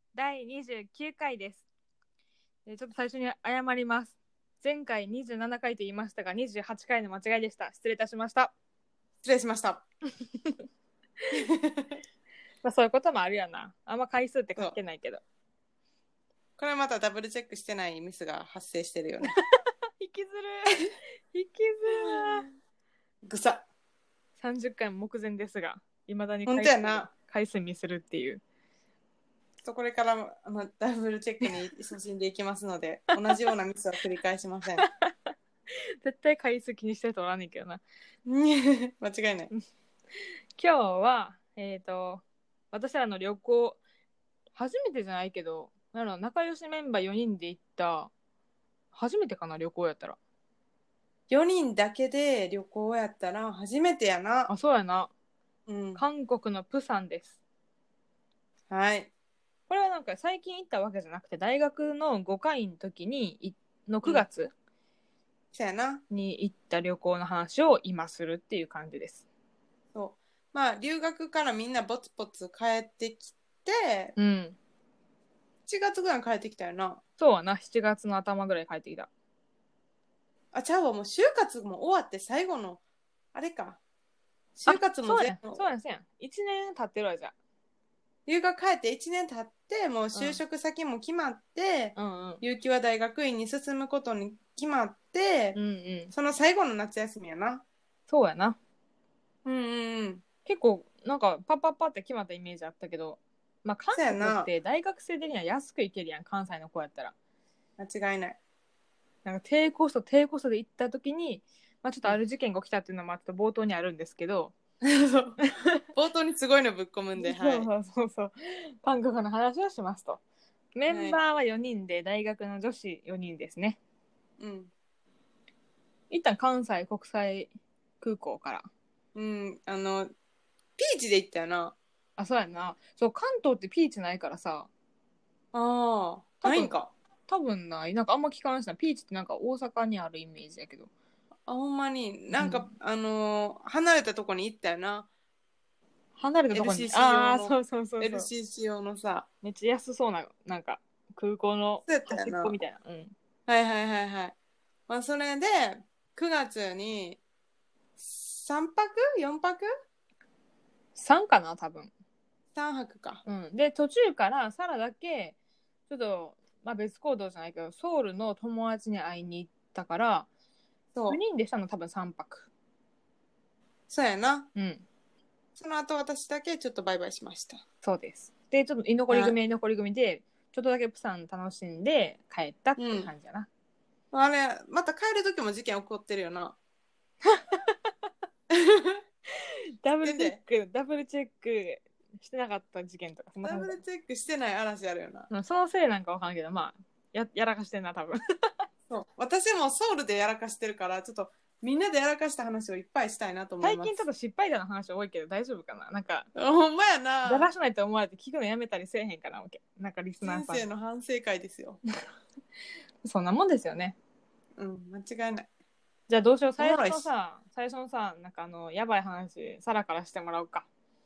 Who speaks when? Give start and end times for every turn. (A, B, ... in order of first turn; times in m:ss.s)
0:00.1-0:01.6 A
0:02.7-0:08.5 A
0:09.2-0:09.8 B
0:11.3-0:12.0 B
0:12.6-0:15.2 A
0:16.6-0:19.4 B
0:20.0-0:22.5 A
0:22.1-0:22.5 B
0:23.2-0:23.6 B
0:24.4-0:28.4 A
0:26.5-0:27.1 B
0:29.6-0:34.9 B
0:34.8-0:35.3 A
0:36.0-0:37.8 A
0:38.3-0:39.5 B
0:40.6-0:43.8 A
0:44.6-0:48.1 A
0:48.9-0:50.2 A
0:51.3-0:54.5 B
0:54.5-0:55.1 A
0:55.7-0:56.0 B
0:56.0-0:57.3 A
0:58.7-0:59.1 B
0:59.7-1:04.5 A
1:05.5-1:06.0 B
1:06.1-1:09.2 A
1:09.9-1:14.2 B
1:14.2-1:14.6 A
1:15.7-1:17.0 B
1:17.2-1:19.1 A
1:20.5-1:22.8 B
1:23.3-1:23.8 B
1:24.6-1:25.6 B
1:24.7-1:27.3 A
1:28.3-1:35.6 B
1:30.1-1:30.4 A
1:32.0-1:32.4 A
1:35.6-1:36.1 A
1:36.1-1:37.6 B
1:38.1-1:38.6 A
1:39.4-1:40.2 B
1:40.5-1:47.1 A
1:44.0-1:44.5 B
1:47.8-1:48.4 B
1:49.2-1:54.5 A
1:54.8-1:55.4 B
1:55.5-1:55.8 A
1:56.0-1:57.7 B
1:57.2-2:00.2 A
2:00.8-2:03.8 A
2:00.9-2:01.2 B
2:04.4-2:04.7 B
2:06.1-2:08.7 A
2:09.2-2:10.1 B
2:10.8-2:11.8 B
2:12.2-2:14.7 A
2:15.5-2:16.9 B
2:16.4-2:16.8 A
2:17.3-2:20.9 A
2:21.5-2:25.1 B
2:22.3-2:22.7 A
2:26.2-2:28.3 A
2:26.5-2:29.3 B
2:29.4-2:33.1 A
2:31.9-2:32.6 B
2:33.5-2:34.4 B
2:34.9-2:37.2 B
2:38.0-2:39.7 B
2:41.0-2:41.9 A
2:42.6-2:43.2 B
2:43.3-2:45.4 A
2:45.9-2:50.3 A
2:50.9-2:51.2 B
2:51.1-2:52.5 A
2:53.9-2:54.5 B
2:54.6-2:54.8 A
2:55.6-2:57.6 B
2:57.8-3:03.5 A
2:59.1-2:59.3 B
3:02.8-3:03.1 B
3:04.1-3:06.6 B
3:07.2-3:07.7 A
3:08.5-3:09.0 B
3:09.4-3:13.8 A
3:10.0-3:10.4 B
3:13.4-3:15.3 B
3:15.3-3:18.2 A
3:18.9-3:24.0 B
3:23.6-3:26.3 A
3:26.4-3:27.5 B
3:27.2-3:30.7 A
3:30.2-3:31.8 B
3:33.0-3:34.0 A
3:34.6-3:35.5 B
3:36.1-3:40.7 A
3:36.6-3:37.1 B